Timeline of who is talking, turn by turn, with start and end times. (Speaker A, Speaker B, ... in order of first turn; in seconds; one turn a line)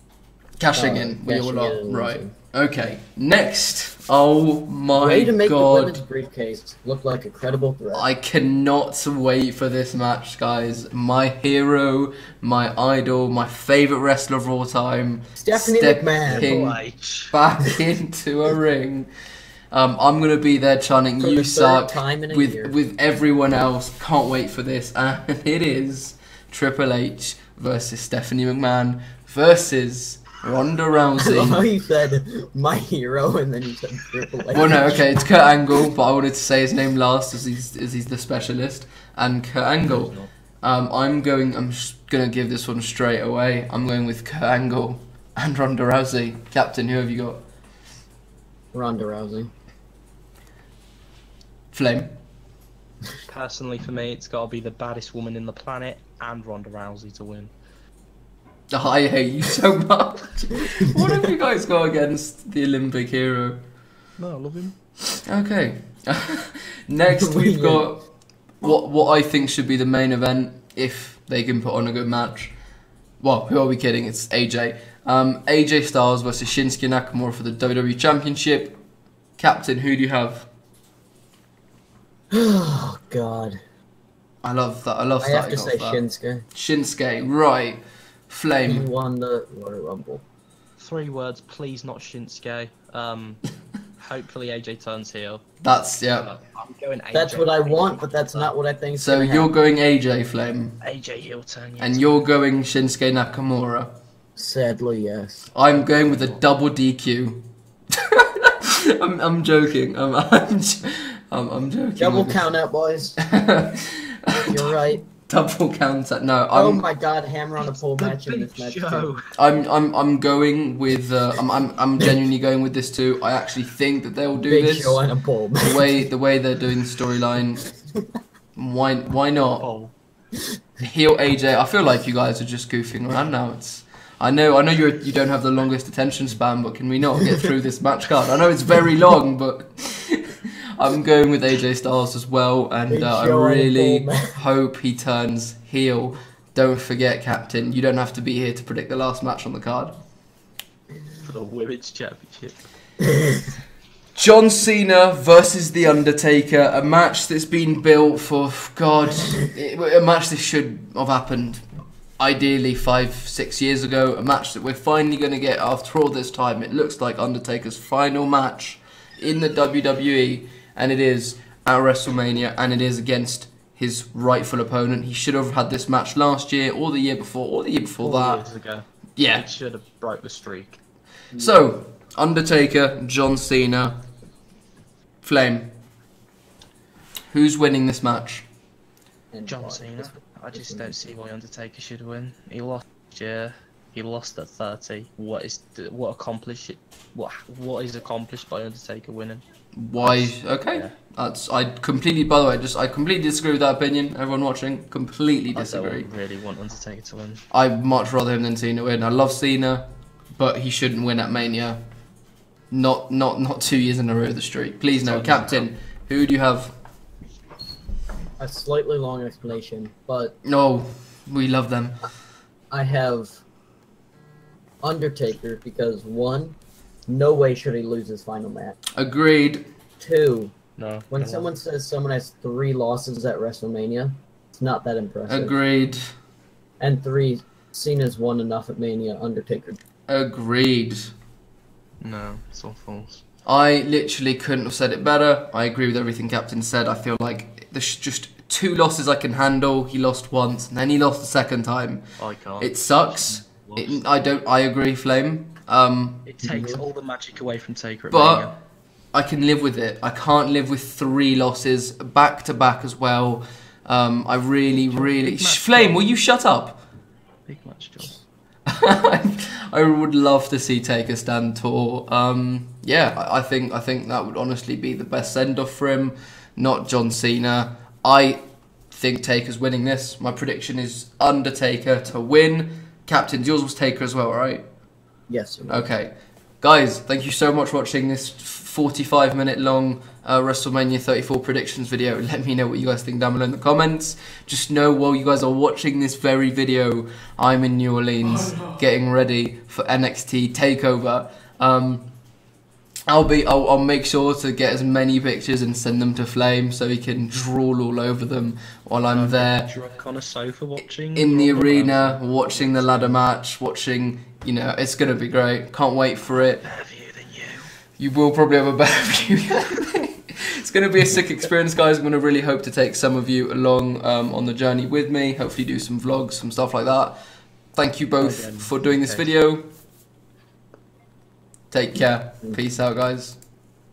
Speaker A: 0.6-6.0
Speaker B: 0.7-2.3
Speaker B: 4.9-8.1
Speaker A: 7.9-16.8
Speaker B: 15.4-16.5
Speaker C: 16.3-17.4
Speaker A: 17.3-19.1
Speaker A: 19.7-31.6
Speaker B: 21.2-22.7
Speaker B: 31.2-35.1
Speaker A: 34.5-47.4
Speaker C: 39.8-40.3
Speaker B: 48.7-49.5
Speaker A: 51.7-52.1
Speaker C: 53.3-57.5
Speaker A: 58.7-63.6
Speaker C: 64.2-64.8
Speaker A: 65.2-68.0
Speaker B: 67.1-67.9
Speaker A: 68.6-72.5
Speaker A: 73.2-78.8
Speaker A: 79.4-80.5
Speaker B: 82.3-83.6
Speaker A: 84.4-86.0
Speaker B: 85.2-86.5
Speaker A: 86.5-88.9
Speaker B: 88.6-90.2
Speaker C: 90.8-93.4
Speaker C: 94.0-95.4
Speaker A: 95.6-96.3
Speaker C: 96.1-98.5
Speaker B: 97.1-99.5
Speaker A: 99.0-100.8
Speaker C: 100.8-102.2
Speaker A: 101.8-103.9
Speaker B: 104.3-105.5
Speaker A: 105.5-112.5
Speaker C: 105.7-106.4
Speaker B: 112.0-113.2
Speaker A: 113.2-116.8
Speaker B: 114.3-115.0
Speaker B: 116.5-119.1
Speaker C: 117.6-119.3
Speaker A: 119.4-125.0
Speaker B: 124.4-126.1
Speaker A: 125.6-127.7
Speaker A: 128.6-129.7
Speaker C: 129.6-129.9
Speaker A: 130.8-149.9
Speaker B: 142.9-144.4
Speaker C: 151.2-152.6
Speaker B: 153.0-153.4
Speaker A: 154.1-161.6
Speaker A: 162.2-178.4
Speaker C: 178.0-180.8
Speaker A: 179.2-179.4
Speaker B: 181.3-181.7
Speaker A: 181.3-184.0
Speaker A: 185.2-185.7
Speaker A: 187.3-188.5
Speaker B: 189.3-190.9
Speaker C: 189.4-199.4
Speaker A: 199.7-206.1
Speaker C: 200.0-200.9
Speaker C: 205.5-207.4
Speaker A: 207.5-211.8
Speaker A: 212.7-216.7
Speaker C: 215.0-215.7
Speaker B: 218.4-220.3
Speaker A: 220.4-222.0
Speaker B: 222.7-223.4
Speaker B: 224.8-226.6
Speaker B: 227.1-228.8
Speaker A: 229.0-229.7
Speaker B: 230.0-230.5
Speaker C: 230.8-231.5
Speaker B: 231.1-235.6
Speaker A: 235.3-236.0
Speaker B: 236.8-239.8
Speaker A: 240.1-241.1
Speaker C: 242.0-243.2
Speaker A: 243.4-252.0
Speaker C: 252.2-254.0
Speaker A: 252.6-256.2
Speaker C: 256.2-258.5
Speaker B: 256.4-256.8
Speaker A: 258.1-258.5
Speaker A: 259.1-266.8
Speaker C: 264.8-266.1
Speaker C: 267.5-268.2
Speaker A: 268.7-284.6
Speaker B: 285.3-285.9
Speaker A: 285.7-302.1
Speaker A: 303.1-309.7
Speaker C: 309.1-313.2
Speaker A: 311.1-316.6
Speaker C: 316.6-317.7
Speaker A: 318.0-327.2
Speaker A: 327.7-329.7
Speaker C: 328.2-329.3
Speaker A: 331.7-333.4